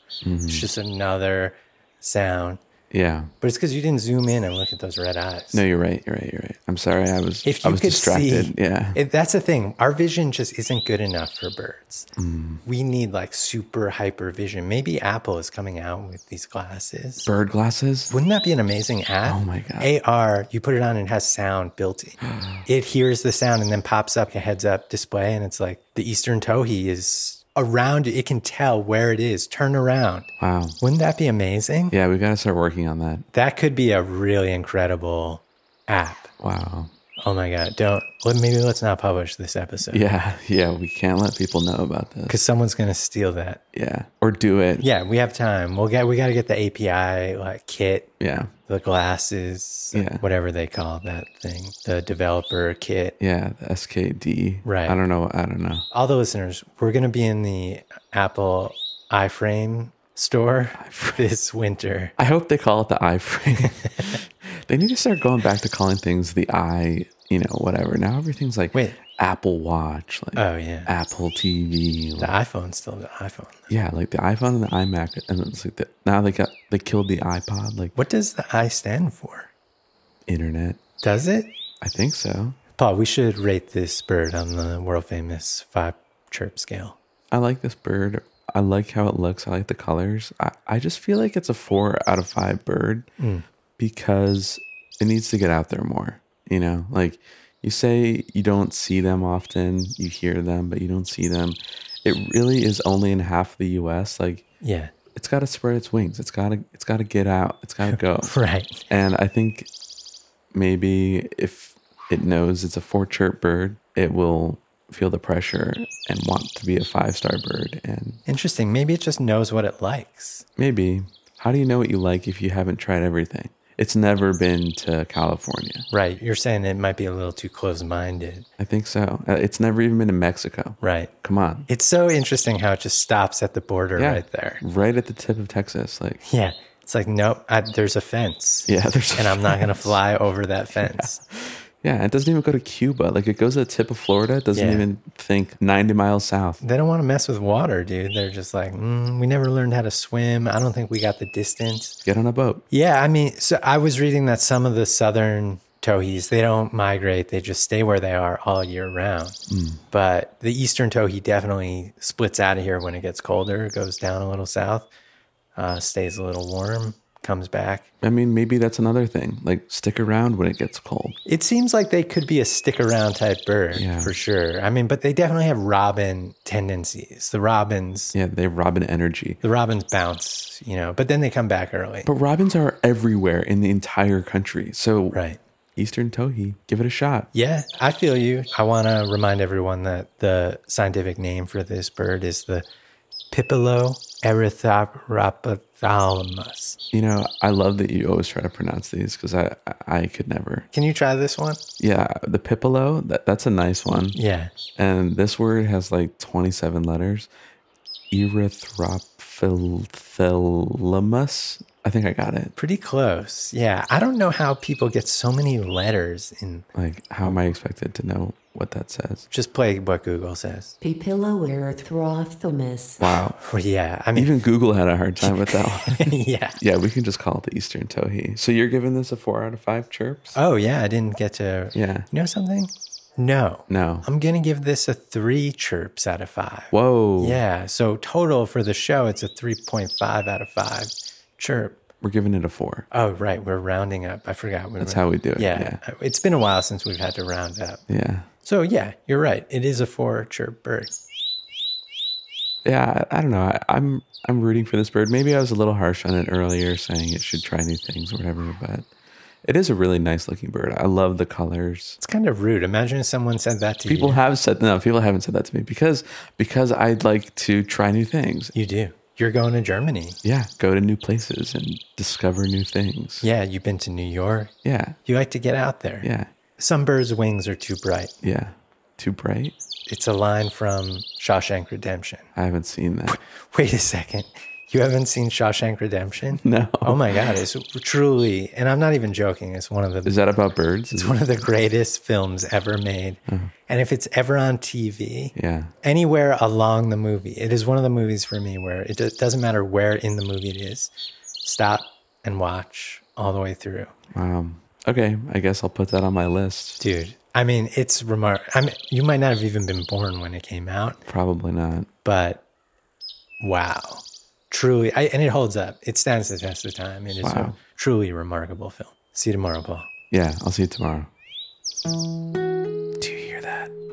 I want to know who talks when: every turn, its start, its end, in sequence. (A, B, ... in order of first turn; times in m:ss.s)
0:00.2-0:00.7 A
0:00.5-0:02.6 B
0:02.9-0:03.3 A
0:03.4-0:05.6 B
0:05.5-0:09.0 A
0:07.4-0:12.1 B
0:12.2-0:12.6 A
0:12.6-0:17.4 B
0:17.2-0:18.1 A
0:18.1-0:30.3 B
0:19.2-0:19.9 A
0:30.4-0:30.8 A
0:30.8-0:32.0 B
0:31.9-0:33.3 A
0:33.3-0:36.3 B
0:36.4-0:36.9 A
0:37.2-0:40.1 B
0:39.9-0:42.4 A
0:42.3-0:43.6 B
0:43.7-0:44.9 A
0:44.8-0:48.1 B
0:48.2-0:48.5 A
0:48.7-0:53.2 B
0:49.9-0:50.2 A
0:53.2-0:55.8 A
0:54.6-0:55.0 B
0:55.9-1:02.2 B
1:00.8-1:01.2 A
1:02.2-1:12.3 A
1:03.8-1:04.1 B
1:08.7-1:09.0 B
1:10.4-1:10.9 B
1:12.2-1:13.7 B
1:13.7-1:18.0 A
1:18.0-1:19.5 B
1:20.3-1:20.8 A
1:21.0-1:21.6 B
1:21.8-1:22.6 A
1:22.8-1:27.0 B
1:27.3-1:33.1 A
1:33.2-1:33.5 B
1:33.8-1:44.4 A
1:44.6-1:44.9 B
1:45.1-1:48.3 A
1:47.8-1:48.8 B
1:48.9-1:49.7 A
1:50.5-1:58.2 A
1:58.3-2:00.4 B
2:00.6-2:05.9 A
2:05.9-2:08.5 B
2:08.6-2:11.7 A
2:10.8-2:11.1 B
2:11.7-2:14.6 B
2:14.0-2:16.2 A
2:16.2-2:21.2 B
2:18.7-2:20.0 A
2:20.8-2:26.6 A
2:24.5-2:24.9 B
2:26.6-2:32.0 B
2:32.0-2:32.6 A
2:32.7-2:39.4 B
2:39.5-2:39.8 A
2:39.9-2:44.9 B
2:45.6-2:47.9 B
2:48.0-2:51.2 A
2:51.3-2:58.2 B
2:53.7-2:54.2 A
2:58.1-2:59.4 A
2:59.4-3:02.1 B
3:02.0-3:05.2 A
3:05.1-3:05.4 B
3:05.8-3:07.3 A
3:07.3-3:12.7 B
3:13.3-3:16.8 B
3:16.9-3:20.7 A
3:20.7-3:21.6 B
3:21.8-3:24.2 A
3:24.1-3:24.5 B
3:24.8-3:27.3 A
3:28.1-3:32.5 A
3:32.6-3:36.7 B
3:36.7-3:39.3 A
3:39.3-3:40.7 B
3:40.8-3:43.1 C
3:43.0-3:43.4 A
3:43.4-3:44.4 B
3:44.1-3:50.4 A
3:45.2-3:46.6 B
3:50.4-4:01.8 B
3:51.7-3:52.1 A
3:53.7-3:54.1 A
3:56.7-3:57.4 A
4:02.0-4:02.9 A
4:02.9-4:07.8 B
4:04.8-4:05.8 A
4:07.9-4:08.3 A
4:08.4-4:10.9 B
4:12.6-4:18.9 A
4:19.4-4:22.0 A
4:22.0-4:24.2 B
4:23.9-4:28.5 A
4:28.5-4:30.2 B
4:30.2-4:33.3 A
4:33.2-4:34.5 B
4:34.6-4:35.0 A
4:35.1-4:36.1 B
4:36.0-4:36.3 A
4:36.6-4:38.1 B
4:38.2-4:39.6 A
4:39.9-4:42.3 B
4:42.4-4:43.2 A
4:43.1-4:50.2 B
4:46.4-4:47.4 A
4:50.0-4:51.2 A
4:50.9-5:00.9 B
4:55.4-4:55.7 A
5:01.4-5:04.0 B
5:04.1-5:06.8 A
5:06.8-5:11.0 B
5:11.0-5:11.9 A
5:12.0-5:12.4 B
5:13.4-5:19.9 B
5:17.2-5:17.6 A
5:20.1-5:21.1 A
5:23.0-5:23.7 A